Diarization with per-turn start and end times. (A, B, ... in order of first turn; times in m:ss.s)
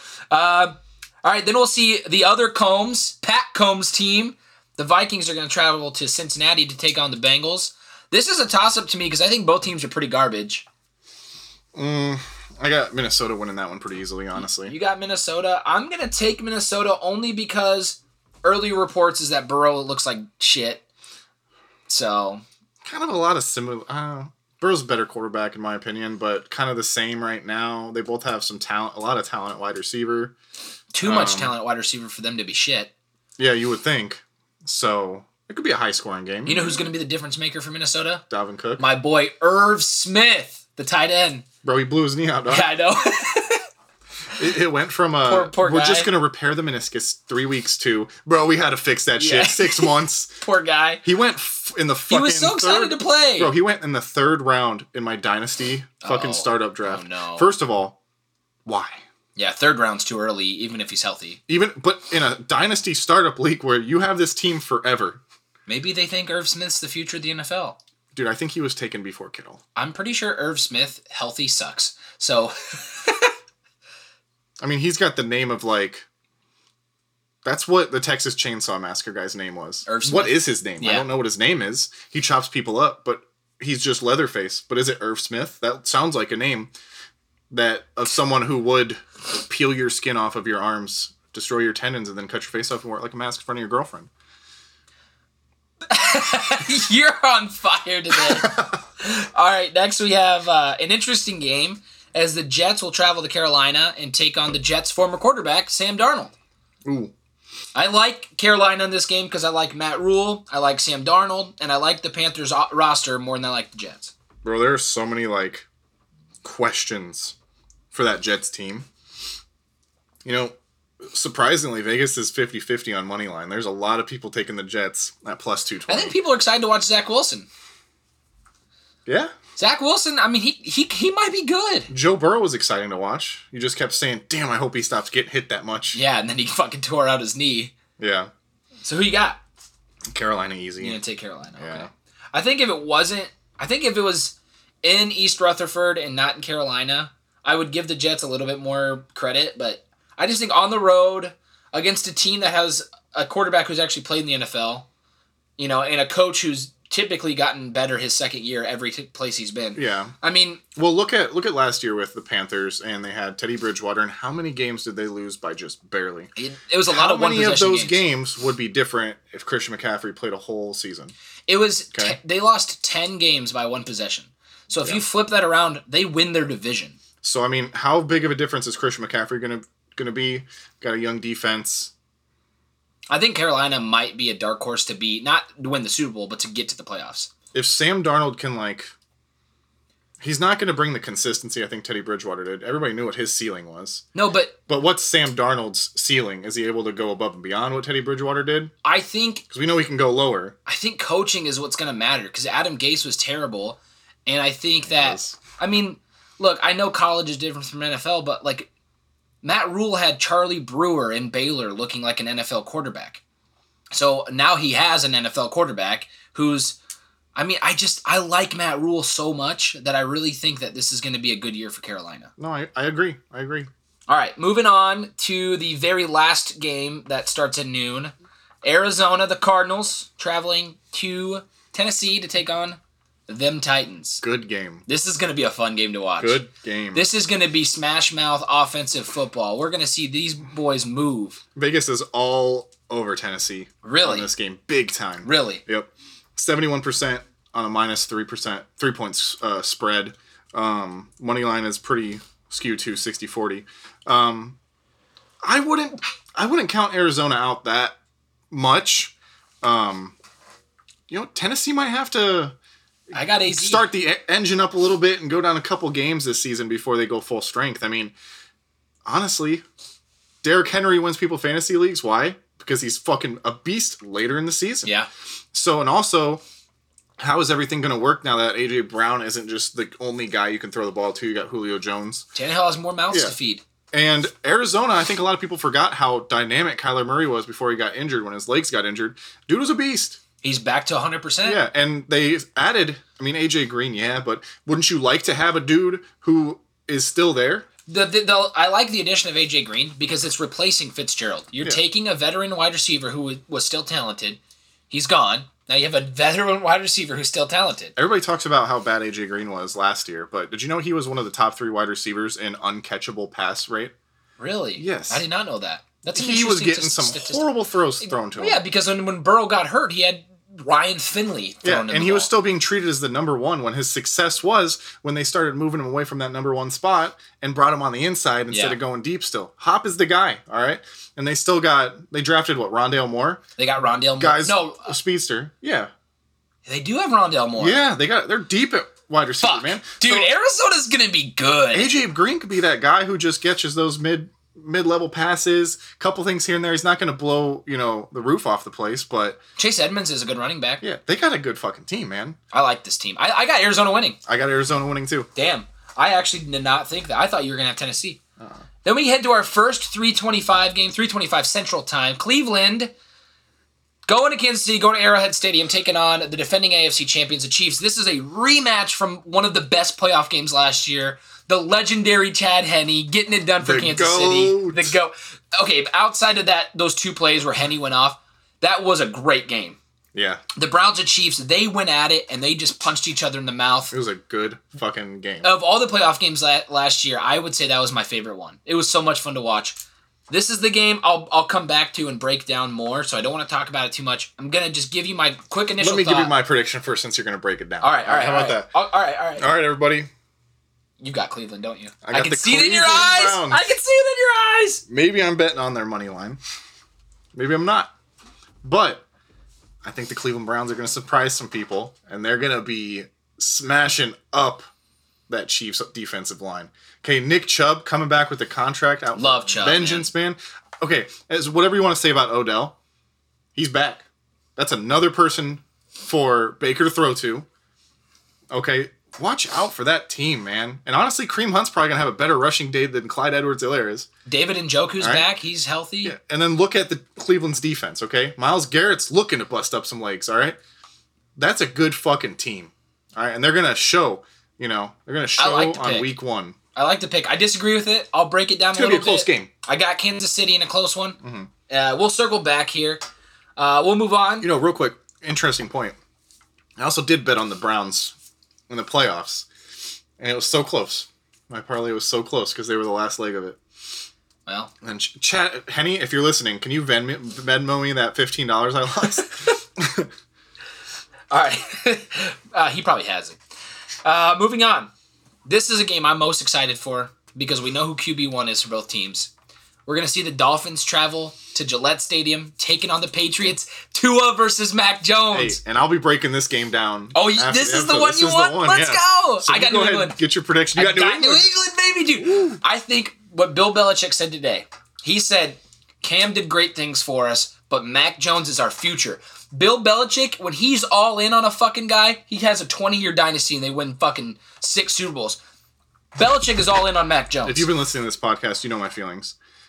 0:00.3-0:10.6 A
0:11.7-0:14.8 B
0:14.6-0:20.8 A
0:21.9-0:22.4 A
0:22.8-0:30.3 B
0:30.9-0:32.9 A
0:31.0-0:31.5 B
0:33.4-0:36.9 B
0:36.5-0:38.2 A
0:38.3-0:38.8 B
0:38.8-0:41.4 A
0:41.6-0:42.7 B
0:42.5-0:43.6 A
0:44.4-0:50.3 B
0:45.2-0:46.1 A
0:49.2-0:51.0 A
0:51.0-0:58.0 B
0:52.1-0:53.5 A
0:56.0-0:57.5 A
0:58.6-0:59.0 B
0:59.4-1:01.4 A
1:01.5-1:05.2 B
1:05.7-1:07.8 A
1:08.1-1:09.6 B
1:09.8-1:13.3 A
1:14.6-1:16.0 B
1:17.4-1:26.7 B
1:19.9-1:21.1 A
1:27.5-1:34.1 B
1:35.9-1:46.3 A
1:38.1-1:38.8 B
1:46.8-1:47.1 B
1:47.8-1:54.1 A
1:54.4-1:55.7 B
1:56.4-1:57.4 B
1:57.9-1:58.9 B
2:00.2-2:06.2 B
2:05.9-2:07.5 A
2:09.1-2:09.4 B
2:09.6-2:11.9 A
2:11.9-2:16.0 B
2:15.9-2:17.8 A
2:18.0-2:18.3 B
2:18.8-2:19.4 A
2:20.1-2:21.0 B
2:20.8-2:34.9 A
2:21.6-2:21.9 B
2:35.6-2:40.6 A
2:39.8-2:40.1 B
2:40.8-2:46.3 B
2:46.4-2:48.0 A
2:46.9-2:51.1 B
2:51.5-2:57.0 A
2:57.2-3:01.9 B
3:03.1-3:07.3 A
3:07.5-3:08.9 B
3:10.2-3:14.1 B
3:14.2-3:14.6 A
3:14.7-3:18.7 B
3:18.8-3:19.4 A
3:19.5-3:20.6 B
3:20.7-3:28.7 A
3:24.8-3:25.4 B
3:29.4-3:33.2 A
3:33.9-3:36.8 A
3:37.4-3:42.3 A
3:42.4-3:43.7 B
3:44.1-3:54.2 A
3:54.2-3:54.8 B
3:54.9-3:56.4 A
3:56.2-3:57.1 B
3:56.9-4:01.4 A
4:01.6-4:14.6 B
4:03.8-4:04.3 A
4:05.2-4:05.6 A
4:15.4-4:18.0 B
4:18.5-4:20.2 B
4:21.1-4:22.6 B
4:23.1-4:23.9 A
4:23.4-4:28.1 B
4:29.0-4:29.6 B
4:30.4-4:34.9 B
4:34.8-4:35.1 A
4:35.5-4:36.4 B
4:37.2-4:42.3 B
4:42.4-4:43.6 A
4:43.9-4:50.2 B
4:50.4-4:51.6 A
4:51.4-4:57.7 B
4:57.9-5:08.0 A
5:08.0-5:13.9 B
5:14.4-5:17.4 A
5:14.8-5:15.2 B
5:16.1-5:18.6 B
5:18.0-5:22.3 A
5:21.6-5:33.4 B
5:28.5-5:28.8 A
5:33.6-5:34.9 A
5:34.2-5:35.9 B
5:36.7-5:37.8 A
5:37.6-5:40.3 B
5:39.4-5:41.9 A
5:41.7-5:49.4 B
5:49.6-5:50.8 A
5:50.8-5:52.4 B
5:52.5-5:54.2 A
5:54.3-5:55.3 B
5:55.4-5:58.2 A
5:58.8-6:02.9 A
6:04.1-6:19.8 A
6:13.6-6:15.0 B
6:20.1-6:20.4 B
6:20.6-6:23.9 A
6:23.9-6:25.5 B
6:25.4-6:29.8 A
6:30.3-6:36.3 A
6:35.8-6:38.7 B
6:37.8-6:39.5 A
6:39.4-6:40.1 B
6:41.0-6:44.8 A
6:42.0-6:43.6 B
6:44.9-6:46.4 B
6:47.3-6:47.9 B
6:48.6-6:49.0 B
6:49.8-6:54.7 B
6:55.3-7:02.8 B
6:59.2-7:00.1 A
7:03.6-7:07.5 B
7:08.5-7:14.1 B
7:14.3-7:16.2 A
7:15.0-7:15.3 B
7:16.0-7:20.6 B
7:21.4-7:26.6 B
7:25.4-7:26.1 A
7:26.8-7:31.2 A
7:28.7-7:29.5 B
7:31.2-7:31.5 B
7:31.7-7:33.0 A
7:33.6-7:34.5 A
7:34.4-7:36.0 B
7:36.8-7:38.1 B
7:38.7-7:39.5 B
7:40.2-7:43.6 B
7:44.5-7:44.7 A
7:44.8-7:50.1 B
7:51.3-7:53.4 A
7:54.0-7:54.9 A
7:55.5-7:59.3 A
7:59.9-8:05.6 A
8:05.3-8:11.5 B
8:07.1-8:10.2 A
8:10.8-8:25.4 A
8:12.2-8:12.6 B
8:26.2-8:27.7 A
8:27.4-8:29.4 B